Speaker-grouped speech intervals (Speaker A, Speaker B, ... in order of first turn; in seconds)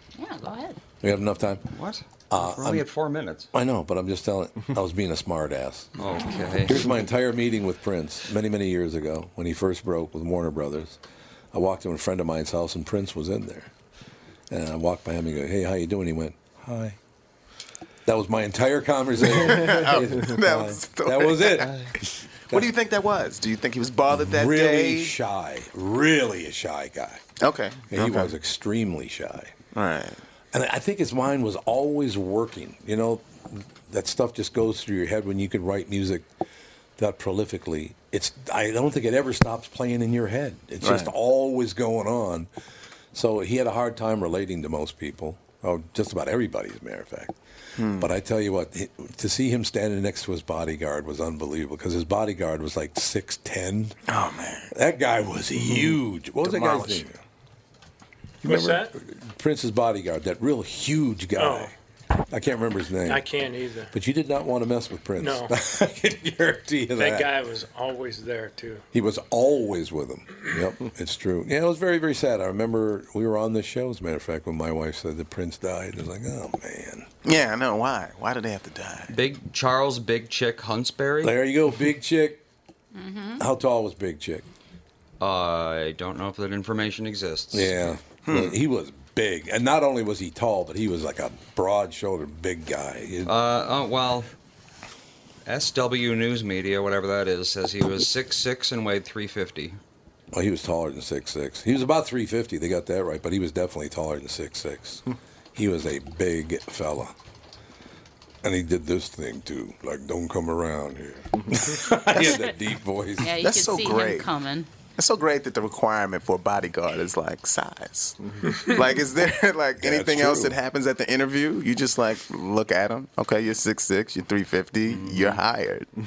Speaker A: 0.2-0.8, 82.9-83.4, 113.2-114.7
Speaker B: 1.0-1.6, 2.3-2.8, 3.5-5.9, 6.6-11.0, 11.5-13.7, 14.5-17.0, 18.1-22.7, 24.1-27.2, 27.9-29.5, 30.5-36.3, 37.0-42.5, 43.1-47.4, 48.0-54.0, 54.7-57.2, 58.4-61.7, 62.3-63.2, 63.9-67.3, 68.9-77.1, 81.2-82.4, 83.4-84.5, 87.5-93.3, 100.3-105.0, 105.5-107.1, 108.4-113.4, 119.8-120.5
Speaker C: 1.7-3.5, 6.0-6.8, 79.1-81.3, 85.2-87.7, 93.2-94.3, 95.5-99.8
Speaker D: 19.2-21.8, 22.5-25.1, 27.4-28.3, 29.7-30.2, 40.8-41.1, 47.8-48.1, 54.1-54.7, 55.6-57.1, 77.2-79.1, 88.3-88.6, 112.1-112.4, 113.4-114.3, 115.0-125.9
Speaker E: 58.4-58.9, 61.4-61.7, 63.0-63.9, 65.2-65.5, 66.9-68.8